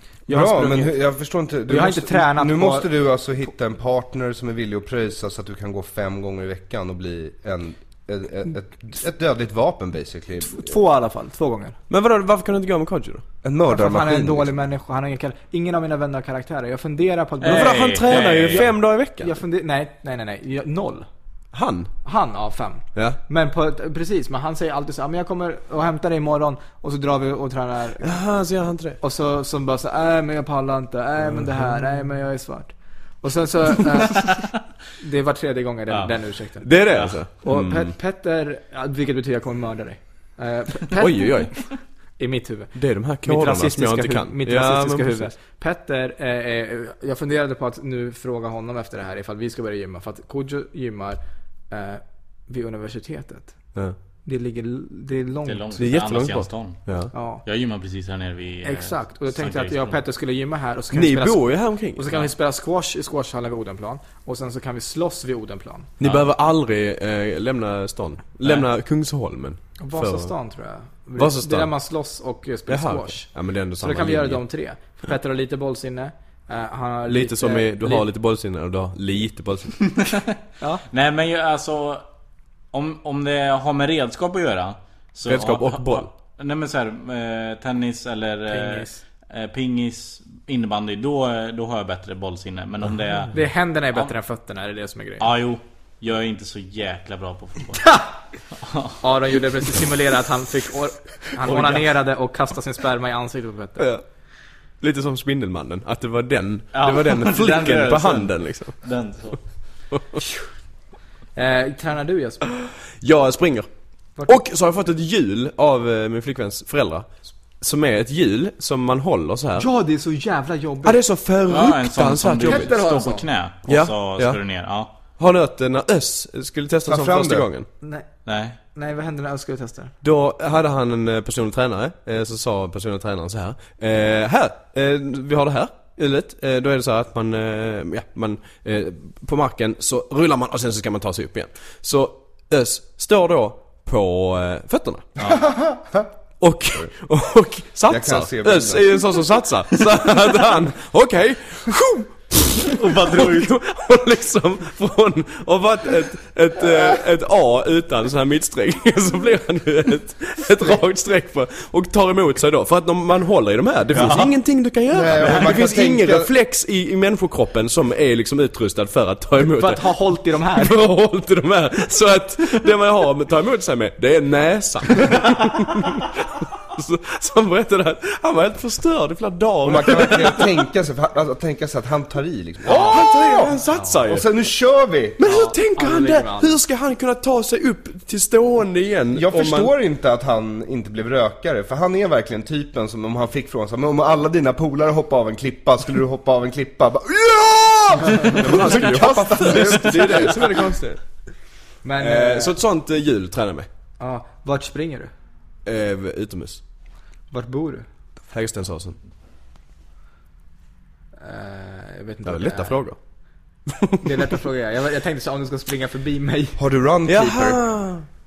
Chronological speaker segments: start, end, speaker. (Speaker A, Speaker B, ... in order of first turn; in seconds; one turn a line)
Speaker A: 0.3-1.0
Speaker B: 0.3-10.8
Speaker A: 1.7-2.9
Speaker A: 10.5-11.8
Speaker C: 11.9-13.2
Speaker B: 13.4-14.5
Speaker A: 13.7-21.1
Speaker D: 17.4-18.6
Speaker C: 17.4-19.3
Speaker C: 21.5-21.9
Speaker A: 22.0-28.2
Speaker C: 28.0-29.0
Speaker A: 29.0-53.5
Speaker C: 31.3-31.9
Speaker C: 36.6-37.9
Speaker D: 36.8-37.2
Speaker C: 41.0-41.7
Speaker C: 42.7-45.3
Speaker A: 54.2-55.8
Speaker D: 55.5-60.0
Speaker C: 55.8-57.1
Speaker A: 57.1-57.4
Speaker A: 58.6-65.9
Speaker C: 60.9-62.1
Speaker C: 66.0-70.3
Speaker D: 66.0-66.3
Speaker A: 69.8-78.0
Speaker C: 71.2-71.7
Speaker C: 72.7-74.4
Speaker C: 77.1-79.8
Speaker D: 79.9-80.2
Speaker D: 80.9-82.0
Speaker D: 82.7-93.3
Speaker C: 85.3-86.1
Speaker A: 88.5-89.0
Speaker A: 93.3-95.3
Speaker D: 95.2-98.0
Speaker A: 97.8-98.1
Speaker D: 98.5-99.0
Speaker A: 99.0-103.9
Speaker C: 101.5-101.8
Speaker C: 104.8-108.8
Speaker D: 106.7-109.4
Speaker C: 109.9-110.2
Speaker A: 111.3-112.4
Speaker C: 113.0-113.7
Speaker C: 114.2-119.7
Speaker A: 119.6-121.0
Speaker C: 120.8-122.7
Speaker D: 121.5-124.9
Speaker A: 122.4-123.3
Speaker C: 123.7-124.4
Speaker C: 125.2-127.7
Speaker B: 126.8-127.5
Speaker A: 127.8-128.1
Speaker D: 128.2-128.6
Speaker A: 128.7-129.9
Speaker C: 130.0-145.1
Speaker B: 145.3-146.1
Speaker C: 146.4-180.5
Speaker B: 147.9-149.0
Speaker D: 152.8-153.5
Speaker D: 163.9-164.3
Speaker B: 164.9-166.3
Speaker A: 169.4-170.8
Speaker B: 179.6-183.5
Speaker C: 182.7-184.3
Speaker A: 183.7-184.0
Speaker B: 184.1-185.2
Speaker C: 185.2-189.7
Speaker A: 185.3-186.6
Speaker B: 189.1-200.7
Speaker C: 198.1-201.0
Speaker A: 201.8-202.6
Speaker C: 202.0-203.7
Speaker A: 204.0-205.1
Speaker C: 205.6-206.6
Speaker A: 207.3-207.8
Speaker C: 208.3-209.0
Speaker A: 211.2-212.8
Speaker C: 212.2-213.0
Speaker A: 214.0-216.6
Speaker B: 216.6-217.6
Speaker C: 217.1-218.1